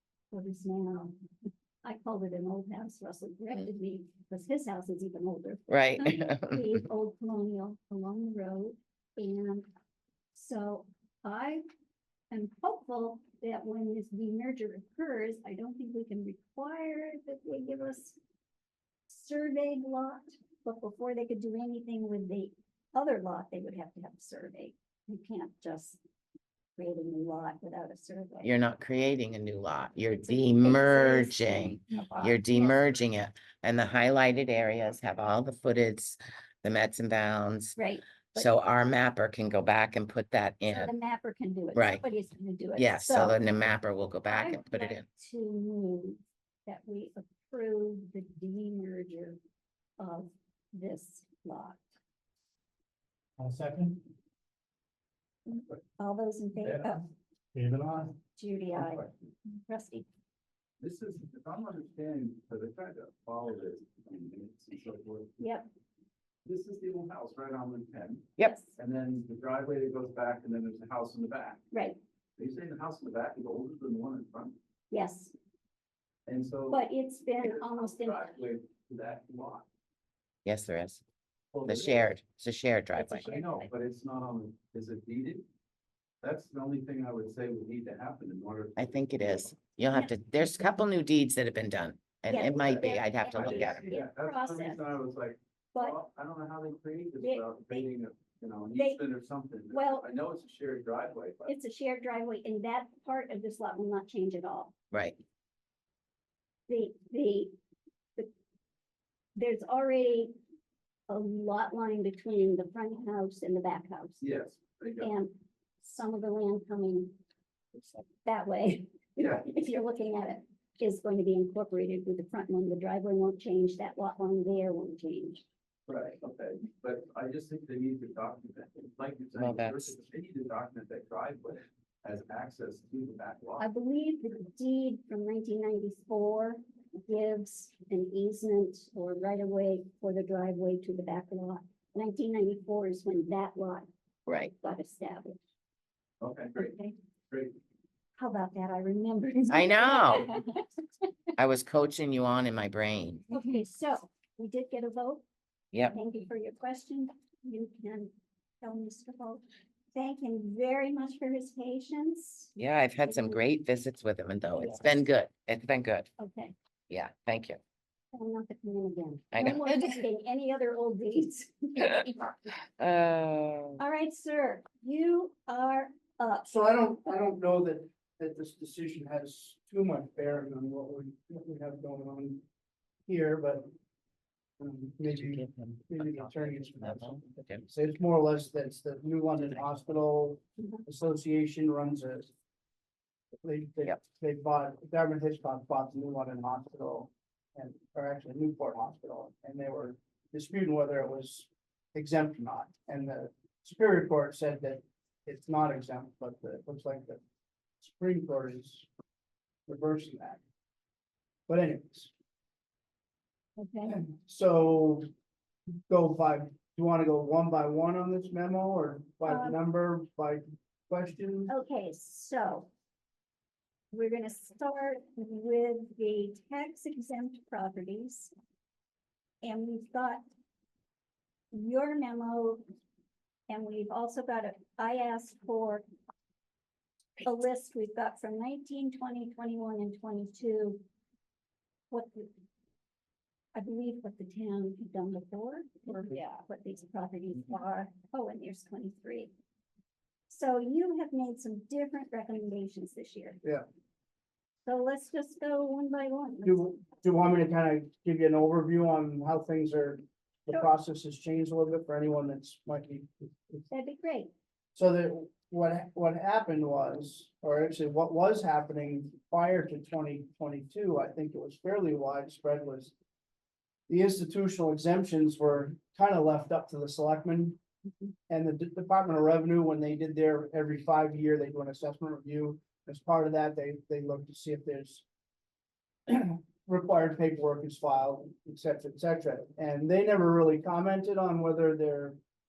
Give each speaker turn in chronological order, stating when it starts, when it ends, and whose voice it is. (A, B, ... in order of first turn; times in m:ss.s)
0:00.3-0:01.1 A
0:01.8-0:09.7 A
0:05.7-0:06.7 B
0:10.3-0:11.6 A
0:12.3-0:18.2 A
0:19.1-0:26.0 A
0:26.8-0:28.5 A
0:28.4-0:37.8 B
0:30.1-0:32.9 A
0:37.8-0:38.5 A
0:38.4-0:40.9 B
0:40.7-0:43.4 A
0:41.8-0:42.0 B
0:42.8-0:45.0 B
0:44.3-0:49.4 A
0:50.0-0:51.8 A
0:53.4-0:54.0 C
0:55.5-0:57.1 A
0:56.6-0:57.0 D
0:57.6-0:58.2 C
0:58.4-1:00.1 A
1:00.8-1:05.4 D
1:05.4-1:05.7 A
1:06.4-1:11.6 D
1:08.4-1:08.8 A
1:11.7-1:12.0 A
1:12.4-1:14.6 D
1:14.9-1:15.3 A
1:16.3-1:16.8 D
1:16.7-1:18.4 A
1:17.4-1:19.7 D
1:20.4-1:21.0 B
1:21.5-1:22.2 D
1:21.6-1:23.3 B
1:23.0-1:23.7 A
1:23.2-1:25.4 D
1:26.2-1:29.5 D
1:28.8-1:33.8 B
1:32.3-1:35.0 A
1:33.3-1:41.6 D
1:37.2-1:37.9 A
1:38.8-1:39.0 A
1:39.7-1:40.1 A
1:41.5-1:44.7 A
1:44.9-1:45.2 B
1:46.7-1:47.5 A
1:49.4-1:50.4 A
1:51.1-1:54.2 A
1:54.2-1:55.2 D
1:55.0-1:57.2 A
1:58.2-2:05.4 A
1:59.2-1:59.5 D
2:05.9-2:13.7 D
2:09.4-2:09.9 B
2:13.6-2:23.9 A
2:24.3-2:24.5 B
2:24.4-2:25.4 A
2:26.2-2:26.8 D
2:26.6-2:27.0 A
2:27.3-2:27.6 D
2:28.2-2:31.1 A
2:29.5-2:30.3 B
2:31.4-2:33.3 B
2:33.3-2:35.2 A
2:35.9-2:42.6 A
2:42.6-2:46.1 B
2:43.1-2:43.4 A
2:44.6-2:44.8 A
2:46.2-2:46.6 A
2:46.9-2:47.6 B
2:48.1-2:52.4 A
2:49.3-2:50.0 B
2:52.8-2:53.8 B
2:53.8-2:56.5 A
2:56.5-3:02.4 C
3:03.1-3:03.7 C
3:04.6-3:12.3 C
3:05.1-3:07.6 B
3:13.4-3:27.2 C
3:27.8-3:28.9 C
3:29.7-3:30.4 C
3:31.5-3:32.1 C
3:33.6-3:34.0 A
3:33.9-3:35.1 C
3:35.9-3:41.5 C
3:39.3-3:39.6 A
3:41.5-3:42.7 A
3:43.9-3:48.3 A
3:49.4-3:50.2 A
3:51.5-3:52.6 A
3:53.5-3:55.8 A
3:57.2-4:00.8 A
4:01.9-4:02.3 A
4:03.6-4:09.3 A
4:10.3-4:13.4 A
4:14.7-4:16.7 A
4:16.4-4:23.7 C
4:23.7-4:24.3 A
4:24.8-4:32.9 C
4:33.9-4:37.6 C
4:38.3-4:45.0 C
4:46.1-4:52.2 C